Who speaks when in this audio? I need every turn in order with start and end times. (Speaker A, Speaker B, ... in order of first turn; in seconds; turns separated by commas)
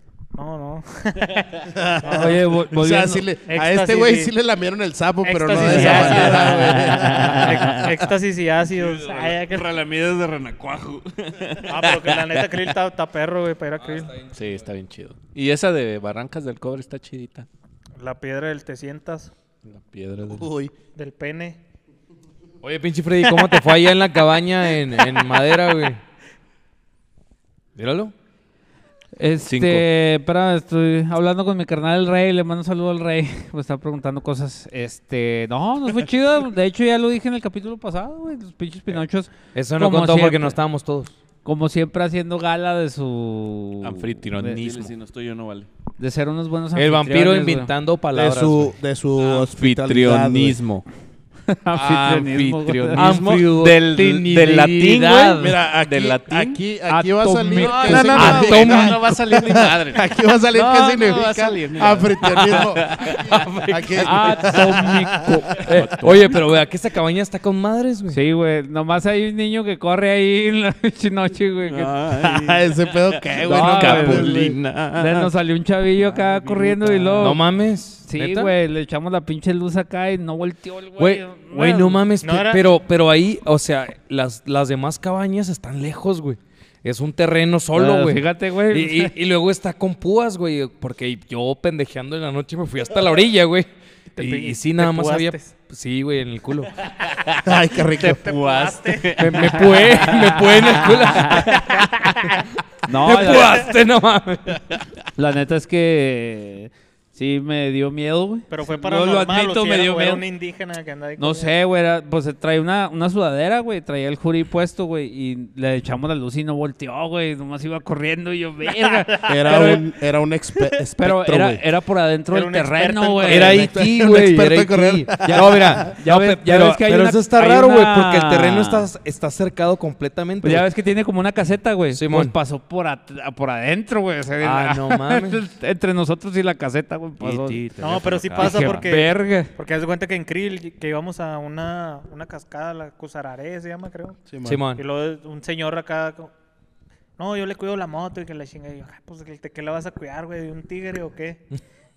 Speaker A: 0.3-2.4, Speaker B: 1.7-7.8, Speaker C: 2.1-3.3, Speaker A: 3.5-4.3, Speaker A: 5.2-9.7, Speaker D: 5.7-6.6, Speaker C: 5.9-6.2, Speaker C: 6.7-7.7, Speaker E: 8.6-12.2, Speaker A: 11.7-14.2, Speaker F: 13.8-14.6, Speaker D: 14.3-17.5, Speaker A: 18.0-19.3, Speaker D: 19.6-20.5, Speaker B: 20.2-20.7, Speaker A: 20.9-21.6, Speaker F: 22.6-26.0, Speaker F: 27.7-28.1, Speaker C: 29.1-40.6, Speaker D: 29.4-29.8, Speaker F: 39.5-41.1, Speaker C: 41.4-44.6, Speaker D: 43.8-44.9, Speaker E: 44.6-45.7, Speaker C: 46.0-47.7, Speaker F: 46.7-48.7, Speaker B: 48.1-50.6, Speaker E: 49.2-49.4, Speaker D: 49.4-50.8, Speaker C: 51.5-53.1, Speaker D: 51.7-56.6, Speaker F: 53.0-55.6, Speaker B: 55.4-65.4, Speaker C: 56.9-58.4, Speaker D: 57.6-64.9, Speaker F: 57.8-59.1, Speaker C: 63.9-65.8, Speaker D: 65.6-66.6, Speaker F: 65.7-68.2, Speaker C: 68.1-71.9, Speaker E: 71.6-73.4, Speaker B: 72.2-74.5, Speaker D: 73.4-75.2, Speaker C: 73.5-74.3, Speaker C: 74.9-77.4, Speaker D: 76.9-77.3, Speaker F: 77.2-78.5, Speaker C: 78.0-82.0, Speaker F: 81.0-96.7, Speaker A: 82.2-82.7, Speaker C: 87.7-89.1, Speaker A: 94.2-95.5, Speaker D: 97.2-101.0, Speaker B: 97.4-98.2, Speaker A: 98.2-99.6, Speaker F: 99.2-102.1, Speaker C: 100.9-101.4, Speaker A: 101.5-102.4, Speaker C: 102.8-103.7, Speaker F: 102.9-104.8, Speaker C: 105.2-110.2, Speaker A: 108.5-111.5, Speaker C: 111.2-119.8, Speaker A: 119.0-119.2, Speaker B: 119.2-121.6, Speaker C: 121.0-123.7, Speaker A: 122.3-123.7, Speaker F: 123.2-130.6, Speaker B: 123.5-125.9, Speaker C: 125.2-128.9, Speaker C: 130.4-137.6, Speaker F: 131.9-132.3, Speaker F: 134.4-135.4, Speaker F: 137.2-137.9, Speaker D: 137.8-138.0, Speaker A: 137.8-144.2, Speaker E: 137.8-138.6, Speaker C: 138.4-139.5, Speaker B: 144.3-144.7, Speaker F: 144.4-144.8, Speaker A: 144.8-146.3, Speaker A: 147.2-151.4